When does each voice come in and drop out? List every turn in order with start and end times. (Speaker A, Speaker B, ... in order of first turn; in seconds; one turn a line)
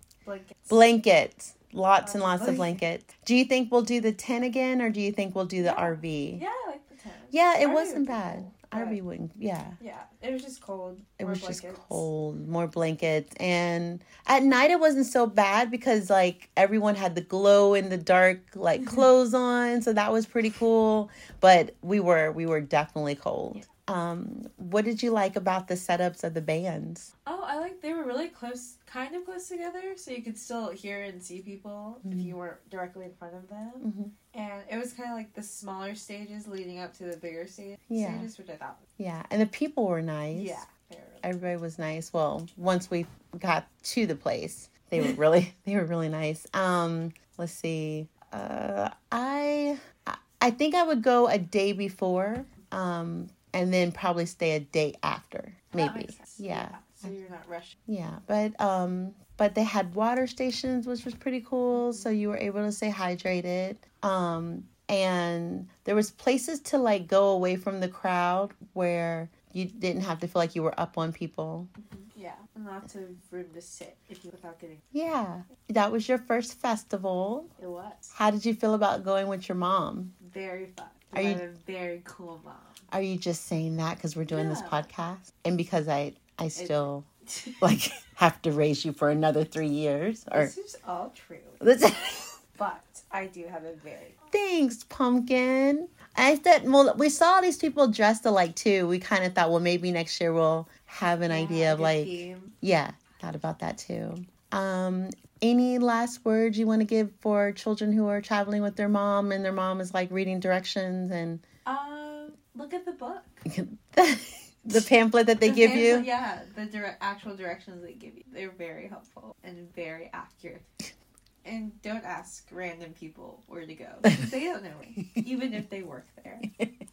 Speaker A: 0.2-0.8
Speaker B: 0.7-6.4
Speaker A: 2.0-2.8
Speaker A: 5.6-9.0
Speaker B: 7.3-9.8
Speaker A: 9.8-12.1
Speaker B: 11.2-27.1
Speaker A: 27.2-38.8
Speaker B: 32.0-32.3
Speaker B: 33.8-34.1
Speaker B: 37.9-38.3
Speaker B: 39.0-40.6
Speaker A: 40.3-41.3
Speaker B: 41.2-57.1
Speaker A: 55.7-57.8
Speaker B: 57.9-71.7
Speaker A: 61.7-62.1
Speaker A: 71.8-74.8
Speaker B: 74.9-77.5
Speaker A: 77.6-78.1
Speaker B: 78.1-80.1
Speaker A: 80.2-82.9
Speaker B: 81.1-81.4
Speaker B: 82.9-87.1
Speaker A: 84.3-84.9
Speaker A: 86.5-87.7
Speaker B: 87.6-90.5
Speaker A: 90.3-91.6
Speaker B: 91.6-92.4
Speaker A: 92.5-94.2
Speaker B: 94.3-111.4
Speaker A: 101.3-102.6
Speaker A: 111.6-113.4
Speaker B: 113.5-116.1
Speaker A: 115.4-120.7
Speaker A: 121.4-126.5